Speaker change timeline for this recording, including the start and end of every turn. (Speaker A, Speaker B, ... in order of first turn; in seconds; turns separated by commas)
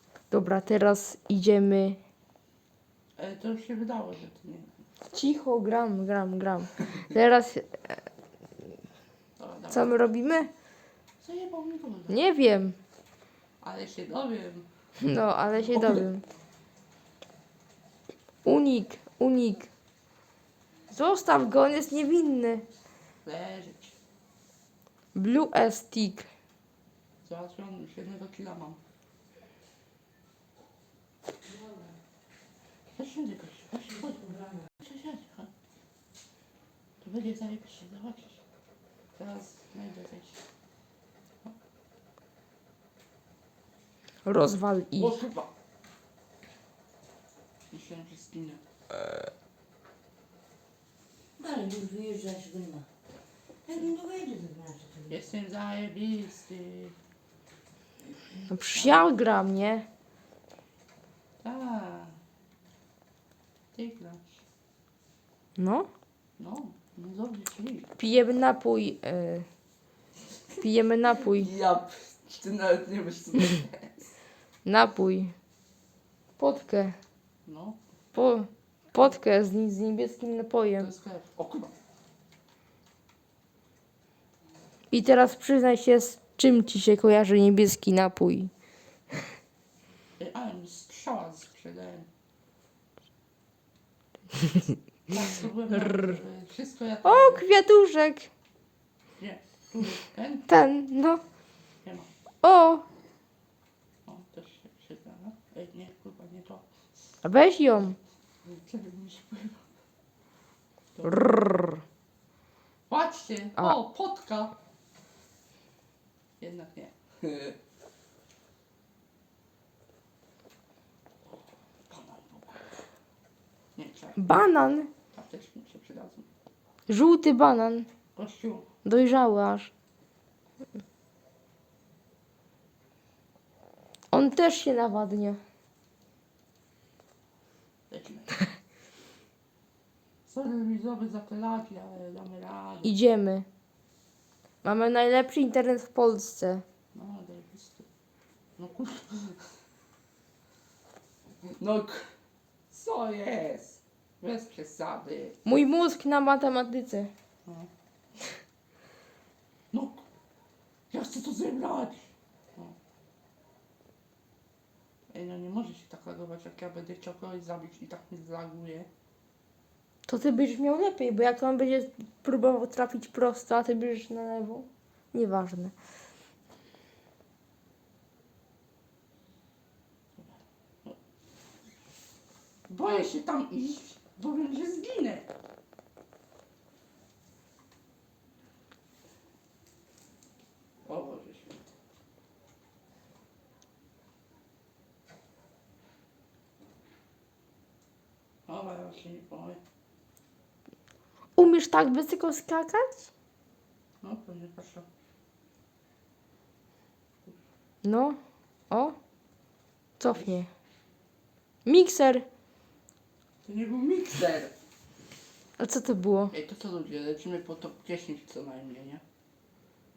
Speaker A: 0.3-2.0, Speaker B: 3.2-4.8, Speaker A: 5.1-8.0, Speaker B: 9.4-9.9, Speaker A: 9.7-10.5, Speaker B: 11.2-12.2, Speaker A: 12.1-12.8, Speaker B: 13.6-14.7, Speaker A: 15.0-16.2, Speaker B: 15.7-16.1, Speaker A: 18.4-19.7, Speaker A: 20.9-22.7, Speaker B: 23.2-23.9, Speaker A: 25.1-26.3, Speaker B: 27.2-28.8, Speaker C: 31.5-31.8, Speaker B: 32.9-35.5, Speaker C: 34.3-34.6, Speaker B: 37.0-38.4, Speaker B: 39.2-40.4, Speaker A: 44.2-45.2, Speaker B: 45.0-45.5, Speaker B: 47.7-48.6, Speaker C: 51.4-52.9, Speaker C: 53.7-55.2, Speaker B: 55.1-56.9, Speaker A: 58.5-59.9, Speaker B: 58.8-59.1, Speaker B: 61.4-62.2, Speaker B: 63.7-64.4, Speaker A: 65.6-65.9, Speaker B: 66.4-67.9, Speaker A: 68.0-69.5, Speaker A: 70.6-71.5, Speaker B: 71.2-73.9, Speaker A: 74.6-75.3, Speaker A: 76.4-77.0, Speaker B: 77.5-77.8, Speaker A: 78.1-80.9, Speaker B: 80.8-81.7, Speaker A: 84.9-88.5, Speaker B: 90.2-92.1, Speaker B: 95.1-97.4, Speaker A: 95.9-96.1, Speaker A: 97.0-98.3, Speaker B: 99.2-100.5, Speaker A: 100.5-101.2, Speaker B: 101.8-102.1, Speaker A: 102.4-102.8, Speaker B: 104.1-106.6, Speaker A: 107.2-108.0, Speaker B: 108.4-109.6, Speaker B: 110.9-111.5, Speaker A: 111.1-111.8, Speaker B: 112.9-114.6, Speaker B: 116.4-117.6, Speaker B: 121.9-122.8, Speaker B: 123.8-124.4, Speaker A: 124.2-124.9, Speaker B: 125.1-126.3, Speaker A: 126.9-127.9, Speaker B: 128.1-128.7, Speaker A: 128.8-129.7, Speaker A: 134.1-135.4, Speaker B: 137.9-138.3, Speaker B: 140.2-142.9, Speaker A: 142.8-143.4, Speaker A: 144.6-146.6, Speaker B: 146.9-147.9, Speaker B: 148.6-149.5, Speaker B: 151.4-152.1, Speaker B: 152.7-155.4, Speaker A: 155.4-157.1, Speaker B: 159.7-160.1, Speaker B: 160.9-162.8, Speaker B: 165.1-168.9, Speaker A: 170.1-175.7, Speaker B: 180.2-181.0, Speaker B: 182.7-185.3, Speaker B: 190.9-191.7, Speaker B: 198.5-199.6, Speaker A: 201.4-203.1, Speaker B: 204.0-204.9, Speaker A: 207.8-208.2, Speaker A: 208.7-208.9, Speaker A: 210.0-210.5, Speaker A: 211.6-212.3, Speaker B: 213.4-214.5, Speaker A: 215.6-216.3, Speaker B: 216.3-219.0